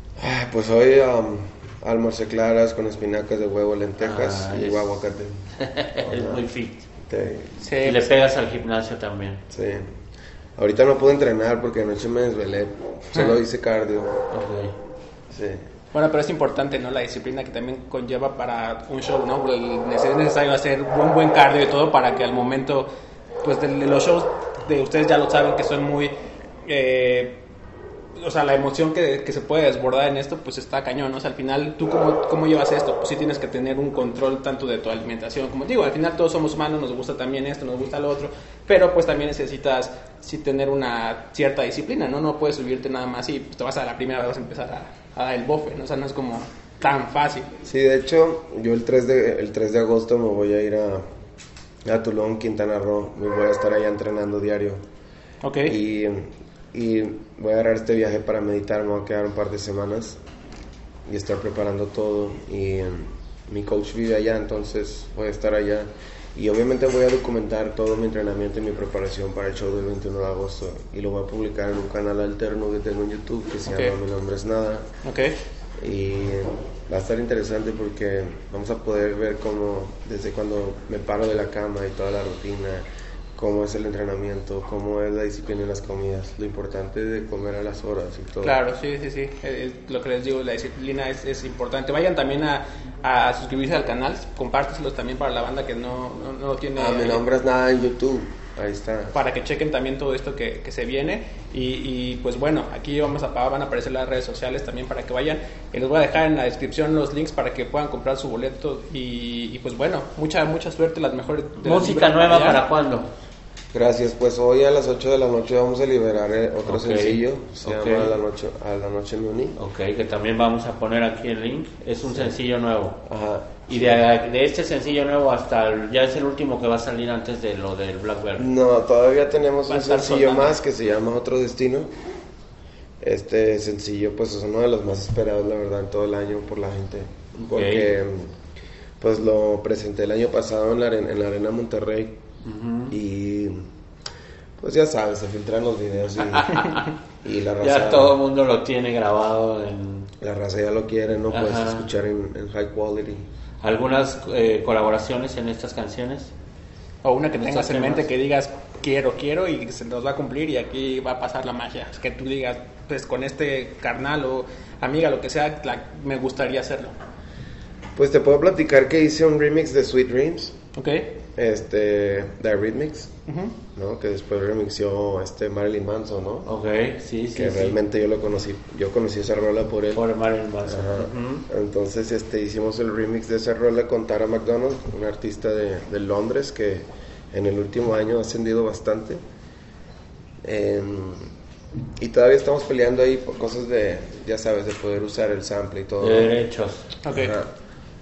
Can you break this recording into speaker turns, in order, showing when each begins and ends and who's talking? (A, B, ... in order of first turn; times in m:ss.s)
0:00.2-0:05.4 A
0:04.0-0:04.9 B
0:05.6-0:06.8 B
0:06.0-0:06.4 A
0:07.1-0:07.6 A
0:07.6-0:08.1 C
0:07.8-0:09.4 B
0:09.5-0:09.9 A
0:10.6-0:14.2 A
0:14.3-0:14.7 B
0:15.3-0:15.6 A
0:15.9-0:22.9 C
0:23.4-0:26.1 C
0:26.7-0:27.4 C
0:28.2-0:47.5 C
0:47.6-0:51.0 A
0:51.8-0:54.8 A
0:55.4-0:55.8 C
0:55.7-1:00.2 A
1:01.1-1:14.9 A
1:13.7-1:14.0 C
1:15.0-1:15.4 C
1:15.8-1:22.8 A
1:23.4-1:28.6 A
1:28.4-1:37.2 C
1:36.8-1:39.2 A
1:39.1-1:52.6 C
1:51.6-1:53.1 B
1:53.7-1:59.6 A
1:56.6-1:58.1 B
1:59.6-2:03.0 B
2:02.1-2:02.4 A
2:03.0-2:04.0 A
2:03.7-2:08.5 B
2:08.4-2:11.9 A
2:09.7-2:10.6 C
2:13.0-2:18.3 A
2:17.4-2:17.9 B
2:19.0-2:22.2 A
2:22.4-2:22.9 B
2:22.9-2:23.7 A
2:24.6-2:26.7 A
2:26.2-2:26.9 B
2:27.2-2:28.2 A
2:27.6-2:30.1 B
2:30.2-2:33.2 A
2:31.3-2:31.9 B
2:33.6-2:36.3 B
2:37.0-2:46.9 C
2:37.4-2:38.0 B
2:48.0-2:50.6 A
2:50.8-2:51.1 C
2:51.4-2:53.1 A
2:53.3-2:53.5 C
2:53.7-2:56.5 A
2:56.4-2:57.8 B
2:57.3-3:00.0 A
2:59.9-3:01.4 B
3:00.6-3:09.2 A
3:10.4-3:11.3 A
3:12.0-3:16.4 A
3:16.0-3:16.9 B
3:17.0-3:17.3 C
3:17.1-3:17.5 A